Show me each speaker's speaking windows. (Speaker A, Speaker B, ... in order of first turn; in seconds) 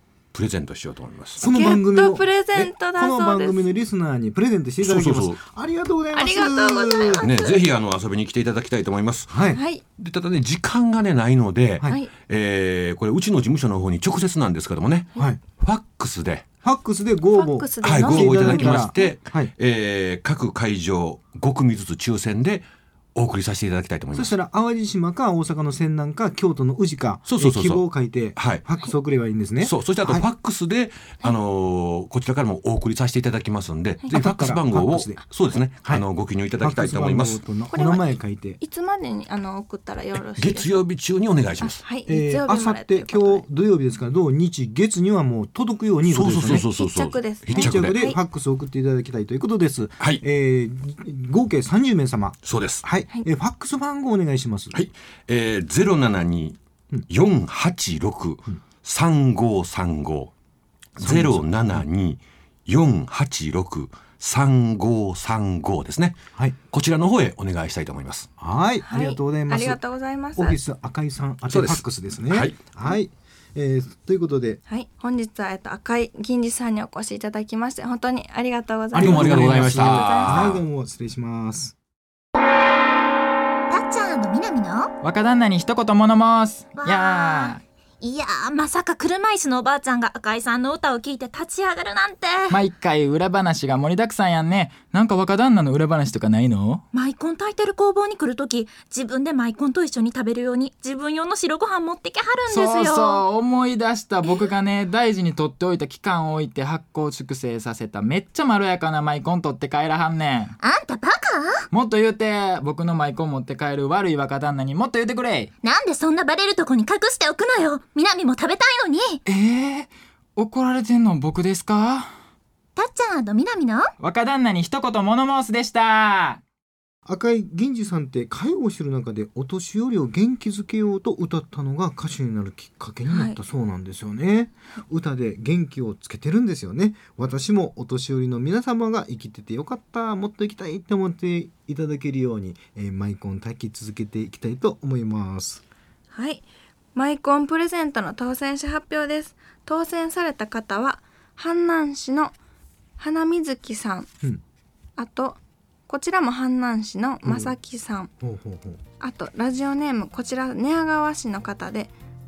Speaker A: 0.3-1.4, 4.8-5.4, 7.2-9.4, 10.0-16.4, 17.8-24.3, 27.3-28.7, 29.6-37.4, 40.1-41.8, 46.1-48.1, 52.4-52.8, 54.7-56.6, 57.1-60.3, 60.9-68.3, 71.5-72.6, 79.0-80.6
Speaker B: 1.4-7.3, 9.3-9.6, 16.6-19.5, 24.1-30.3, 34.1-38.6, 42.1-46.7, 47.5-54.8, 61.0-61.9, 68.4-69.8, 70.4-74.6, 78.9-81.7, 127.0-145.6, 157.2-157.5, 158.2-158.8
Speaker C: 1.4-3.7, 6.1-7.6, 9.5-9.8, 17.3-19.1, 37.7-40.8, 41.6-43.5, 46.5-48.2, 68.9-70.6, 74.7-80.6, 133.1-133.4, 146.1-146.4, 146.9-152.3, 153.0-154.1, 155.0-158.1, 159.0-161.9
Speaker D: 79.5-80.2, 85.0-87.6, 92.5-96.8, 102.5-110.5, 111.7-115.5, 119.2-122.1, 124.0-126.4
Speaker E: 83.7-84.9, 86.8-92.6, 96.9-103.2, 110.6-111.7, 115.6-119.2, 122.8-123.9